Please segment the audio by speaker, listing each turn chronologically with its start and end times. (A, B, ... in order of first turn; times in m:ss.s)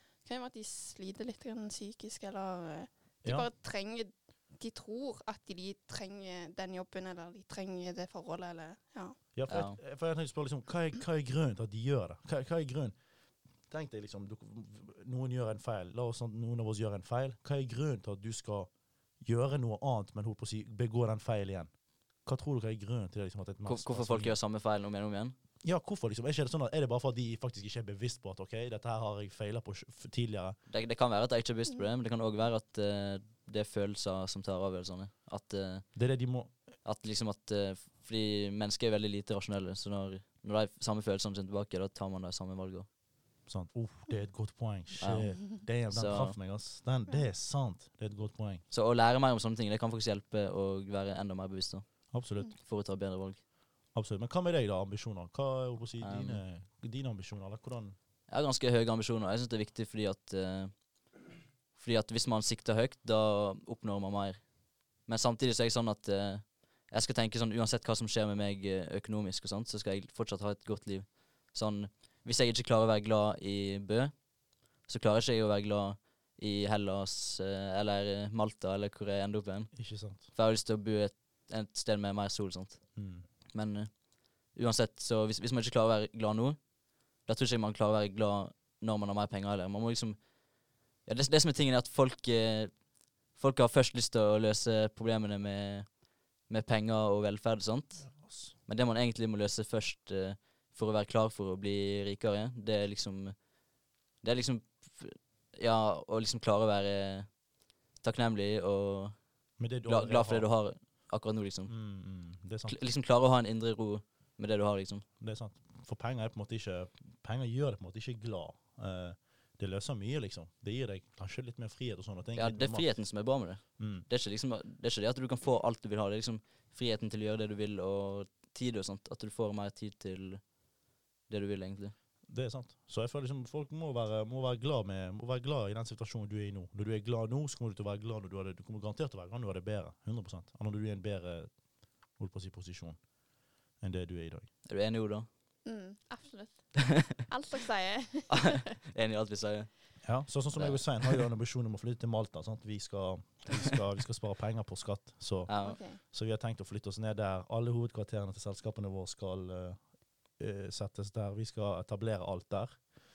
0:00.2-0:09.2 A
0:09.3-0:12.9 B
0:09.5-0:09.8 C
0:13.7-0:18.7 B
0:19.2-0:21.7 B
0:22.2-0:24.3 B
0:23.6-0:25.3 C
0:25.6-0:30.6 B
0:30.7-0:35.8 C
0:35.9-0:36.5 B
0:36.8-0:42.9 C
0:43.5-0:48.6 B
0:45.0-0:46.3 C
0:48.7-0:51.9 C
0:52.1-0:52.5 B
0:52.6-0:53.4 C
0:53.9-0:57.9 B
0:56.0-0:56.4 C
0:58.3-1:00.7 C
1:01.7-1:14.1 C
1:14.8-1:22.8 C
1:19.7-1:20.2 B
1:23.0-1:23.2 B
1:23.5-1:24.0 C
1:24.5-1:26.6 C
1:27.2-1:30.2 C
1:31.0-1:38.1 C
1:38.0-1:38.5 B
1:38.6-1:43.4 C
1:44.2-1:47.3 C
1:48.0-1:49.2 C
1:49.6-1:50.5 B
1:49.8-1:51.7 C
1:51.7-1:52.8 B
1:52.7-1:55.0 C
1:55.2-2:02.9 B
2:02.4-2:10.4 C
2:03.8-2:04.1 B
2:11.3-2:11.9 C
2:12.3-2:21.5 B
2:22.2-2:23.0 B
2:23.8-2:24.5 B
2:24.6-2:25.3 C
2:25.6-2:28.7 A
2:26.8-2:27.2 C
2:28.3-2:29.7 C
2:30.0-2:39.8 B
2:30.5-2:31.2 C
2:35.5-2:35.8 C
2:35.6-2:36.0 A
2:40.3-2:42.8 B